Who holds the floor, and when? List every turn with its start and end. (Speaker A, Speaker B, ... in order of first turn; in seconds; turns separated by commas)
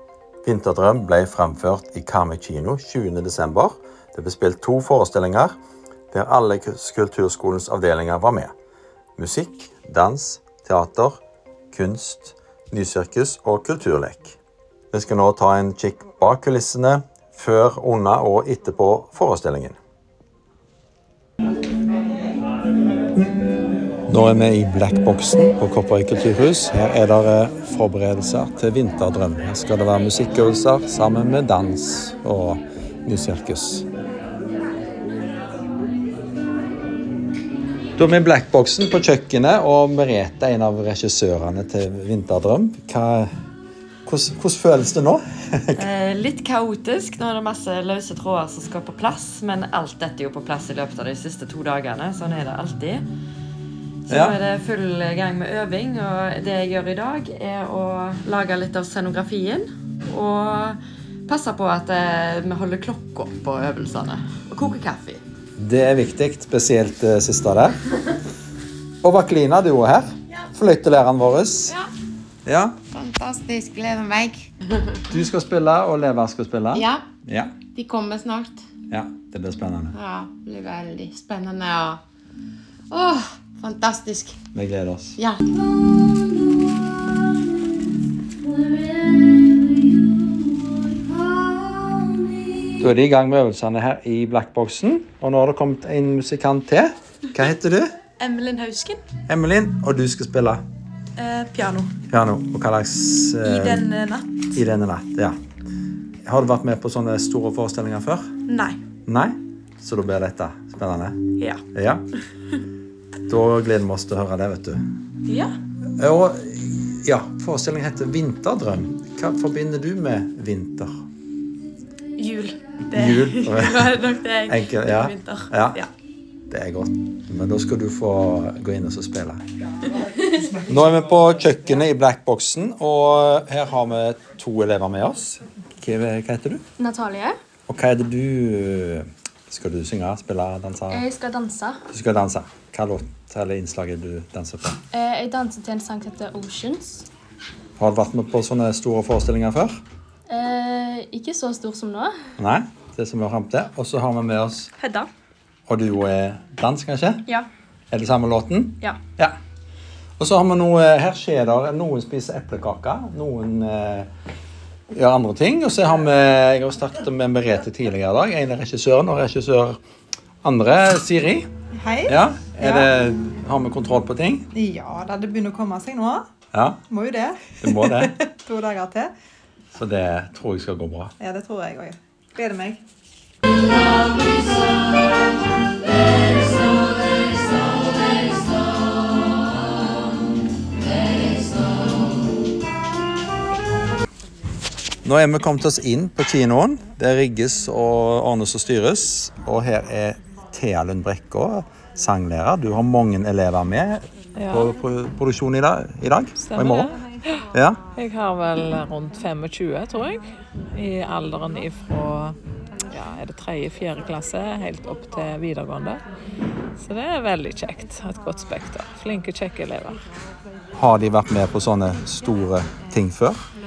Speaker A: 0.4-5.5, Speaker A: 6.1-8.5, Speaker A: 9.2-11.2, Speaker A: 11.7-14.4, Speaker A: 14.9-19.8, Speaker A: 24.1-33.8, Speaker A: 38.0-43.3, Speaker A: 44.1-45.8, Speaker B: 45.8-53.0, Speaker B: 54.1-65.2, Speaker A: 54.1-54.3, Speaker A: 65.6-67.8, Speaker A: 69.0-71.8, Speaker A: 72.5-72.8, Speaker C: 72.9-74.5, Speaker A: 75.1-77.6, Speaker C: 76.7-77.0, Speaker C: 77.8-78.6, Speaker A: 78.9-80.0, Speaker C: 79.9-82.0, Speaker C: 82.9-84.4, Speaker A: 84.5-85.2, Speaker A: 92.8-97.9, Speaker D: 98.2-99.0, Speaker A: 99.3-100.6, Speaker D: 101.2-101.9, Speaker A: 102.1-103.8, Speaker D: 103.4-104.3, Speaker A: 104.5-105.4, Speaker A: 106.3-108.3, Speaker D: 108.5-108.8, Speaker A: 109.1-111.2, Speaker D: 111.4-111.6, Speaker A: 111.7-112.0, Speaker A: 113.3-114.8, Speaker D: 115.3-115.5, Speaker A: 116.0-120.9, Speaker D: 122.2-125.9, Speaker A: 122.9-125.8, Speaker A: 126.5-129.4, Speaker A: 130.7-136.6, Speaker E: 136.8-137.3, Speaker A: 137.7-141.1, Speaker E: 140.9-141.8, Speaker A: 141.9-144.8, Speaker E: 144.9-147.1, Speaker A: 147.8-149.8, Speaker E: 150.3-152.2, Speaker A: 152.4-154.7, Speaker D: 154.8-155.1, Speaker A: 155.7-157.2, Speaker A: 157.9-159.3, Speaker A: 160.2-164.1, Speaker A: 164.9-169.8, Speaker A: 170.4-171.5, Speaker F: 171.8-172.9, Speaker A: 172.1-174.5, Speaker F: 174.5-176.2, Speaker A: 176.5-176.8, Speaker F: 176.9-179.1, Speaker A: 177.6-178.2, Speaker A: 179.7-181.1, Speaker F: 181.2-182.8, Speaker A: 195.1-206.9, Speaker G: 204.4-204.7, Speaker G: 206.4-207.4, Speaker A: 207.5-207.8, Speaker G: 208.0-212.4, Speaker G: 212.9-216.0, Speaker G: 216.8-220.0, Speaker A: 220.8-223.4